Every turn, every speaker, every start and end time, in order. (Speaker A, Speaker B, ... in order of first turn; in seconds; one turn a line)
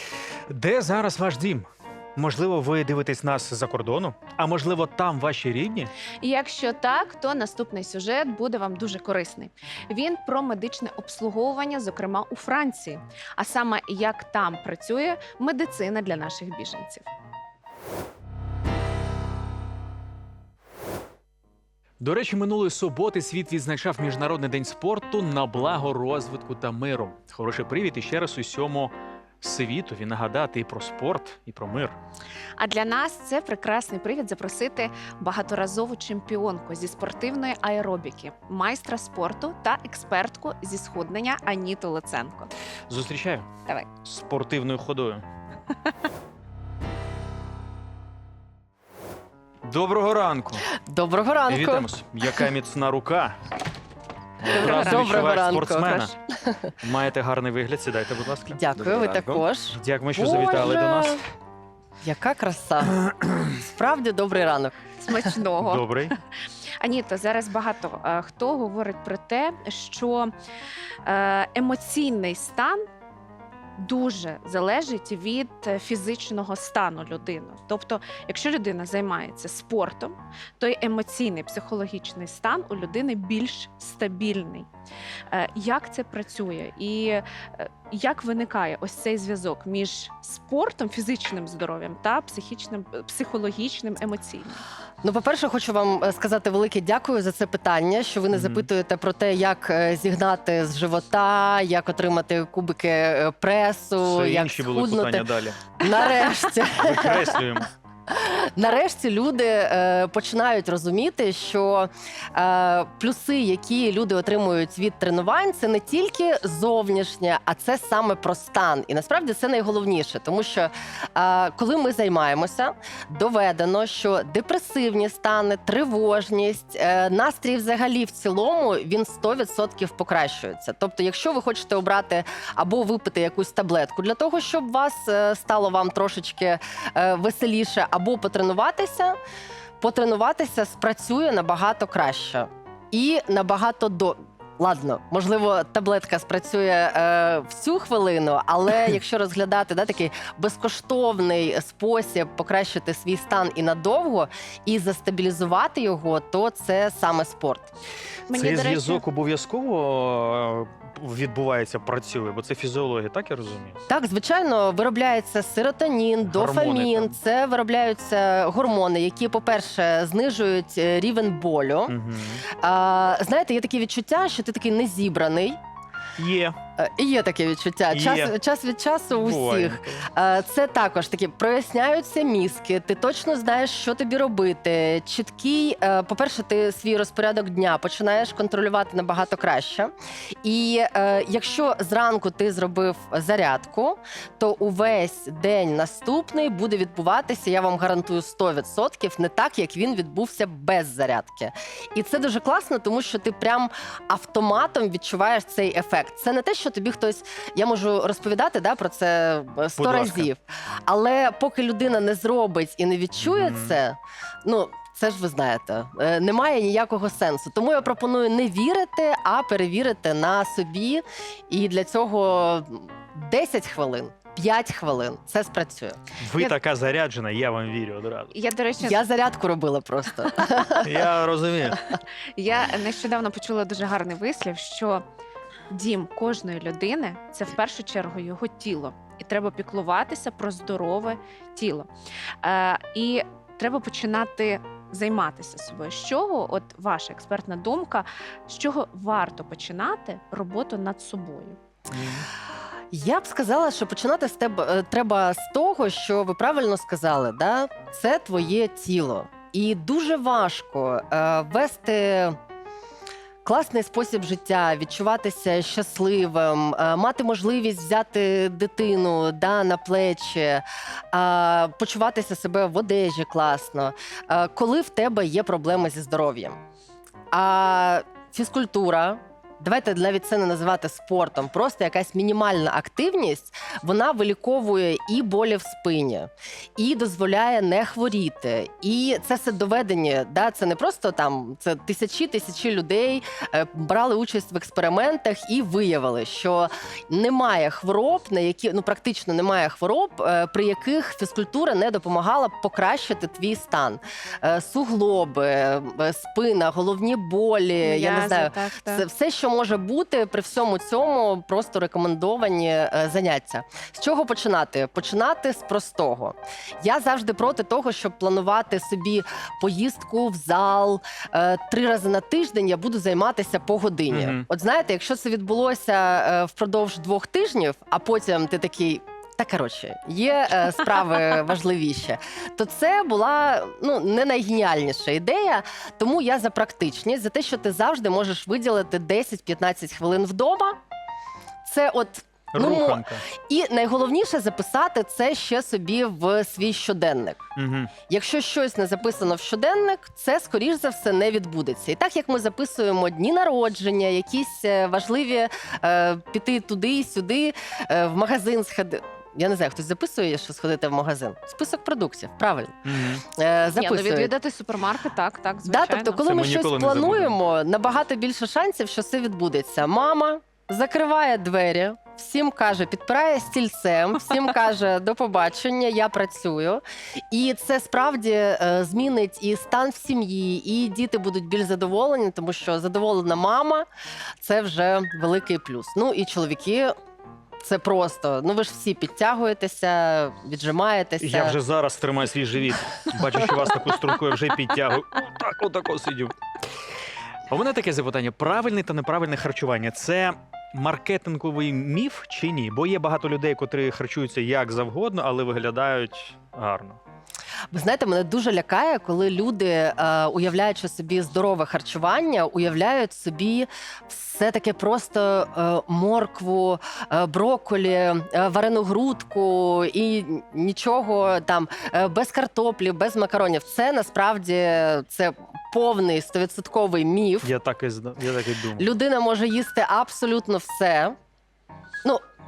Speaker A: 0.5-5.9
Speaker B: 6.2-17.1
Speaker A: 22.0-32.0
Speaker B: 32.6-42.5
Speaker A: 42.9-43.5
Speaker A: 44.0-45.2
Speaker A: 49.6-50.6
Speaker C: 50.7-51.9
Speaker A: 51.5-53.4
Speaker A: 54.4-56.1
Speaker C: 54.5-56.8
Speaker B: 54.6-55.1
Speaker A: 56.8-61.2
Speaker C: 58.5-61.2
Speaker C: 62.0-62.9
Speaker A: 63.0-63.4
Speaker C: 63.5-65.2
Speaker B: 65.0-66.2
Speaker A: 65.6-66.1
Speaker B: 66.8-70.3
Speaker B: 71.0-72.8
Speaker B: 73.8-84.7
Speaker B: 85.3-94.6
Speaker C: 95.0-105.3
Speaker A: 98.3-98.7
Speaker A: 104.0-106.2
Speaker C: 105.8-107.4
Speaker A: 106.8-107.7
Speaker C: 108.1-139.2
Speaker C: 139.8-157.7
Speaker B: 158.3-159.0
Speaker A: 158.3-163.8
Speaker C: 163.9-171.9
Speaker A: 166.2-167.2
Speaker A: 171.9-172.5
Speaker C: 172.5-175.6
Speaker A: 176.2-176.6
Speaker C: 176.8-189.9
Speaker A: 177.9-178.3
Speaker A: 179.1-180.1
Speaker C: 190.4-226.5
Speaker A: 209.8-210.3
Speaker A: 213.2-213.8
Speaker A: 226.2-228.3
Speaker B: 228.3-229.0
Speaker C: 228.8-231.0
Speaker A: 230.8-231.9
Speaker B: 232.4-235.0
Speaker B: 235.7-241.9
Speaker B: 242.4-251.6
Speaker A: 251.9-252.3
Speaker C: 252.9-262.4
Speaker C: 263.4-276.6
Speaker C: 277.3-340.8
Speaker B: 307.8-309.1
Speaker A: 324.1-324.4
Speaker C: 341.6-347.4
Speaker A: 342.5-343.3
Speaker A: 347.6-347.9
Speaker C: 348.1-362.8
Speaker A: 362.9-363.2
Speaker C: 363.3-364.3
Speaker B: 363.8-366.2
Speaker C: 365.6-383.9
Speaker A: 366.2-367.4
Speaker C: 384.4-386.9
Speaker C: 387.6-391.6
Speaker A: 391.2-396.3
Speaker A: 397.5-407.0
Speaker C: 407.7-427.5
Speaker A: 427.4-428.9
Speaker C: 428.8-431.1